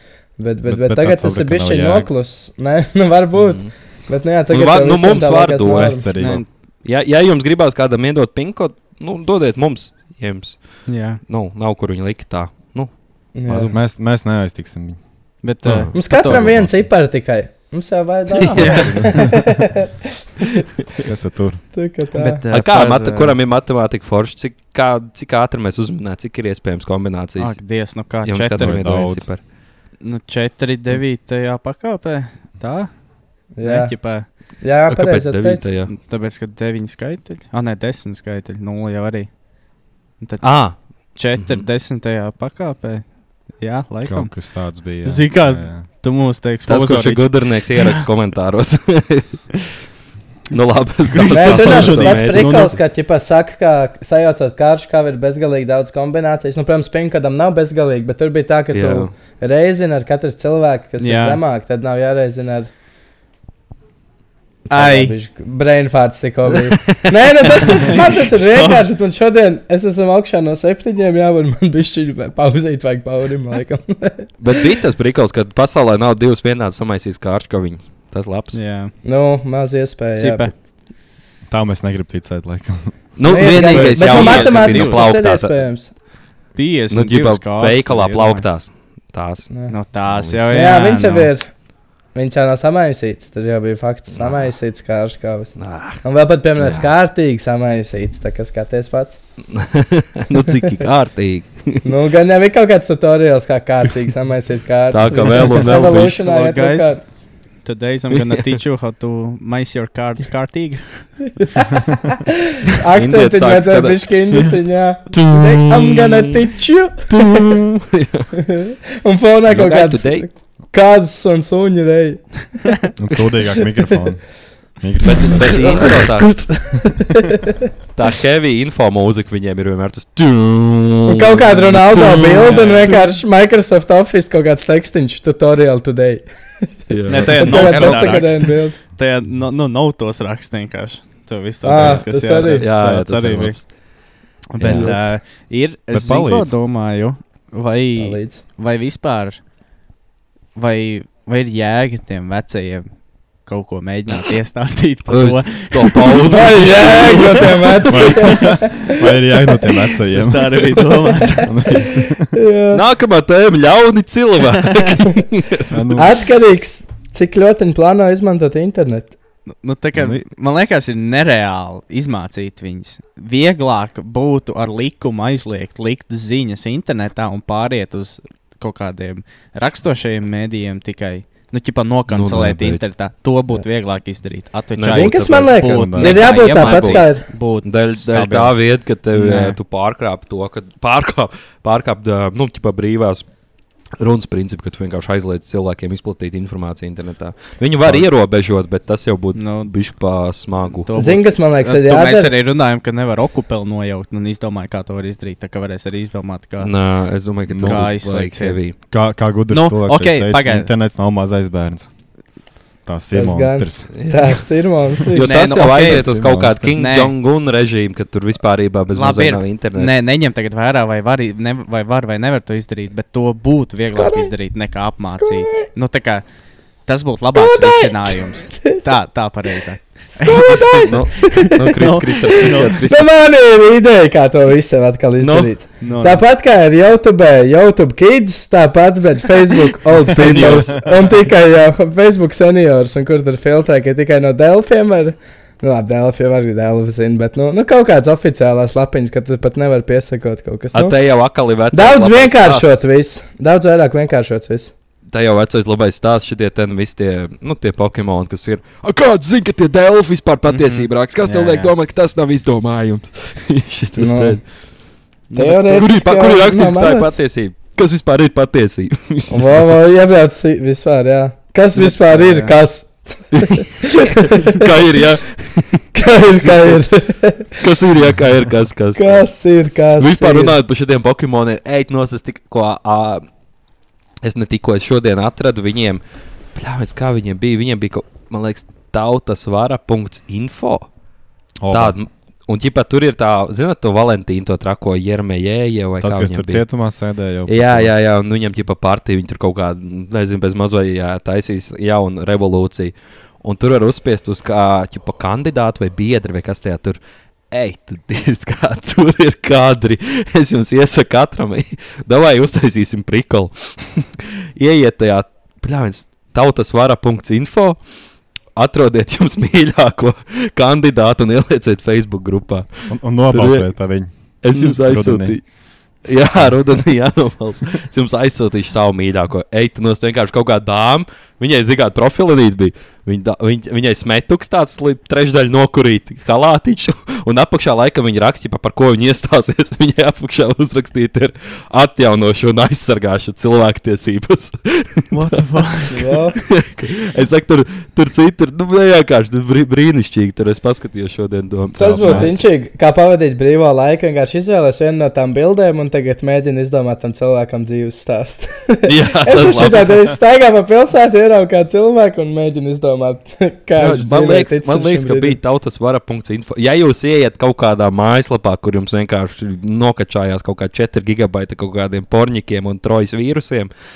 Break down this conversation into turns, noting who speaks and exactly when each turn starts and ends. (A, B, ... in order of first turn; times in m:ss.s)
0:00.4-0:06.1 A
0:00.6-0:02.1 B
0:03.3-0:03.7 C
0:04.5-0:06.1 C
0:05.7-0:06.4 B
0:06.2-0:06.5 D
0:06.8-0:13.7 C
0:10.9-0:11.2 D
0:13.3-0:13.8 A
0:13.5-0:15.0 B
0:15.4-0:16.5 D
0:15.6-0:16.9 B
0:15.6-0:15.9 C
0:15.9-0:19.7 A
0:18.4-0:19.0 C
0:18.4-0:19.6 B
0:18.5-0:19.2 D
0:21.0-0:21.6 B
0:21.7-0:22.4 A
0:22.1-0:23.3 D
0:22.5-0:27.6 C
0:27.4-0:29.0 D
0:28.2-0:29.4 C
0:28.6-0:29.3 B
0:30.0-0:33.0 D
0:33.6-0:35.6 A
0:33.6-0:34.3 D
0:34.9-0:35.9 C
0:35.9-0:39.4 D
0:40.2-0:48.0 D
0:40.4-0:41.6 C
0:44.0-0:45.8 B
0:46.6-0:49.5 C
0:50.5-0:52.7 C
0:51.1-0:52.8 D
0:51.2-1:02.7 A
0:58.7-0:59.1 C
1:01.0-1:01.4 D
1:04.7-1:14.3 A
1:04.7-1:05.1 D
1:06.6-1:08.0 C
1:07.9-1:08.9 D
1:14.4-1:18.6 C
1:18.5-1:18.9 D
1:19.0-1:20.5 A
1:20.1-1:20.5 D
1:21.5-1:22.9 B
1:23.2-1:25.6 C
1:23.2-1:25.9 A
1:23.5-1:25.0 D
1:26.5-1:28.5 D
1:26.9-1:29.5 C
1:29.7-1:31.3 D
1:30.0-1:30.5 C
1:30.5-1:31.5 A
1:32.1-1:39.2 A
1:34.1-1:34.5 C
1:35.6-1:36.0 C
1:36.6-1:36.9 C
1:39.5-1:41.9 C
1:41.8-1:47.0 A
1:44.9-1:46.2 C
1:45.2-1:51.1 D
1:48.1-1:48.6 C
1:51.4-1:57.0 A
1:53.0-1:54.0 C
1:55.1-1:56.4 C
1:57.1-1:58.3 C
1:58.4-2:02.8 A
1:59.5-2:00.3 C
2:03.0-2:06.0 B
2:05.0-2:06.4 C
2:05.2-2:07.4 A
2:07.9-2:13.0 C
2:11.1-2:16.2 A
2:12.4-2:12.9 D
2:16.9-2:18.5 C
2:17.1-2:23.7 D
2:17.1-2:18.8 A
2:21.6-2:22.6 A
2:22.4-2:23.7 C
2:24.5-2:29.4 D
2:24.6-2:25.0 B
2:24.6-2:24.9 C
2:25.9-2:26.5 B
2:28.0-2:28.4 A
2:30.5-2:32.9 D
2:33.4-2:37.4 D
2:35.1-2:38.3 C
2:36.3-2:38.7 A
2:37.9-2:40.9 B
2:40.1-2:41.5 D
2:41.4-2:42.3 B
2:42.3-2:42.8 A
2:42.7-2:45.9 C
2:45.7-2:46.1 B
2:45.9-2:49.1 A
2:49.6-3:08.6 D
2:49.9-2:50.2 B
3:02.1-3:02.8 C
3:04.8-3:13.2 C
3:04.9-3:07.2 A
3:05.6-3:06.2 B
3:09.1-3:09.6 D
3:14.0-3:20.9 C
3:17.8-3:18.1 B
3:19.3-3:19.8 D
3:20.8-3:26.8 D
3:21.0-3:22.3 A
3:26.6-3:28.8 C
3:27.5-3:28.0 B
3:27.6-3:28.8 D
3:28.8-3:32.0 B
3:29.5-3:30.7 D
3:32.8-3:33.9 B
3:33.1-3:35.3 A
3:33.9-3:34.4 C
3:35.1-3:39.9 C
3:35.2-3:37.1 D
3:35.8-3:36.8 B
3:38.9-3:46.2 D
3:43.8-3:44.3 A
3:45.2-3:45.5 A
3:46.8-3:52.8 D
3:47.2-3:48.7 A
3:50.1-3:51.7 A
3:50.8-3:53.1 C
3:52.5-4:11.0 A
3:55.2-3:55.5 C
3:55.8-3:56.2 D
4:00.1-4:00.8 C
4:10.7-4:12.8 C
4:11.7-4:14.7 A
4:15.1-4:24.4 C
4:20.5-4:21.7 D
4:24.0-4:24.4 A
4:25.3-4:25.8 D
4:25.3-4:27.2 A
4:25.7-4:29.7 C
4:29.3-4:33.9 A
4:32.1-4:32.5 D
4:33.3-4:36.8 C
4:35.9-4:37.6 A
4:37.6-4:39.3 C
4:39.0-4:40.5 A
4:40.0-4:43.2 C
4:44.2-4:46.0 C
4:46.5-4:50.9 C
4:51.6-4:52.0 B
4:51.7-4:56.7 C
4:56.0-4:57.9 B
4:57.5-5:07.0 C
5:07.5-5:17.8 C
5:18.6-5:23.7 C
5:22.9-5:25.4 B
5:24.4-5:25.5 C
5:26.0-5:45.4 C
5:45.1-5:46.1 D
5:45.9-5:46.4 A
5:46.4-5:52.4 C
5:51.8-6:05.4 A
5:52.0-5:52.3 B
5:58.9-6:00.1 C
6:03.8-6:13.7 C